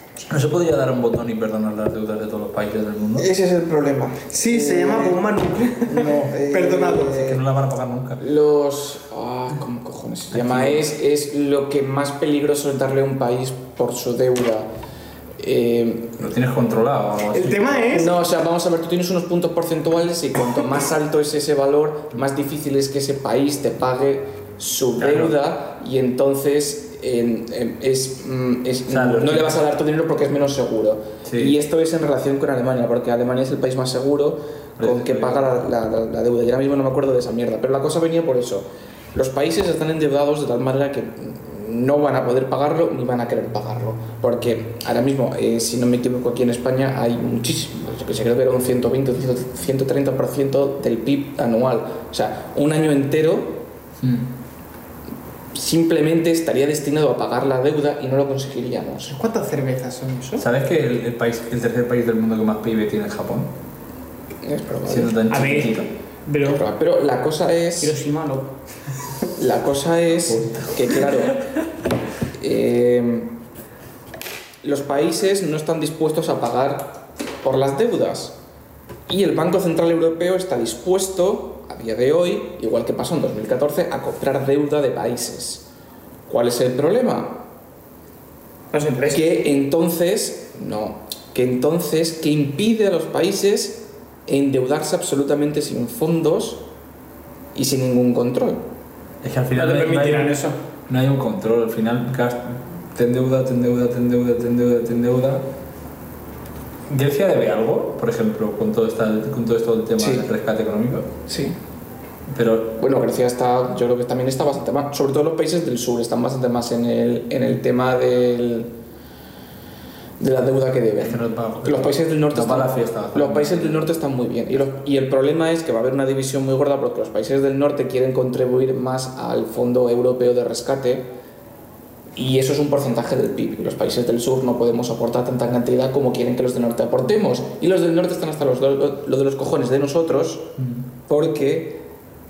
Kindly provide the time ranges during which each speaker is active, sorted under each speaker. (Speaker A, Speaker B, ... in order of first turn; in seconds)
Speaker A: 0.3-3.3, 7.0-8.2, 10.3-10.8, 16.2-17.9, 25.0-25.4, 28.9-29.6, 31.2-31.6, 34.8-35.4, 54.0-54.3, 60.4-63.5, 64.9-65.9, 70.3-71.5, 99.2-100.3, 100.9-105.5, 106.9-111.1, 112.3-112.8, 121.0-123.9, 140.6-140.8
Speaker B: 3.2-5.2, 5.9-7.4, 8.2-14.7, 15.4-16.2, 17.9-53.6, 55.5-59.1, 64.4-65.2, 66.4-68.0, 69.4-71.4, 72.4-73.3, 74.6-78.3, 79.1-85.7, 86.3-87.4, 89.1-96.6, 97.5-98.6, 110.0-110.3, 111.3-111.6, 112.8-118.7, 120.2-131.1, 132.2-140.5, 141.1-141.8
Speaker C: 4.2-7.2, 17.3-18.1, 59.1-60.5, 65.3-66.6, 67.8-68.5, 88.7-89.4, 99.5-100.6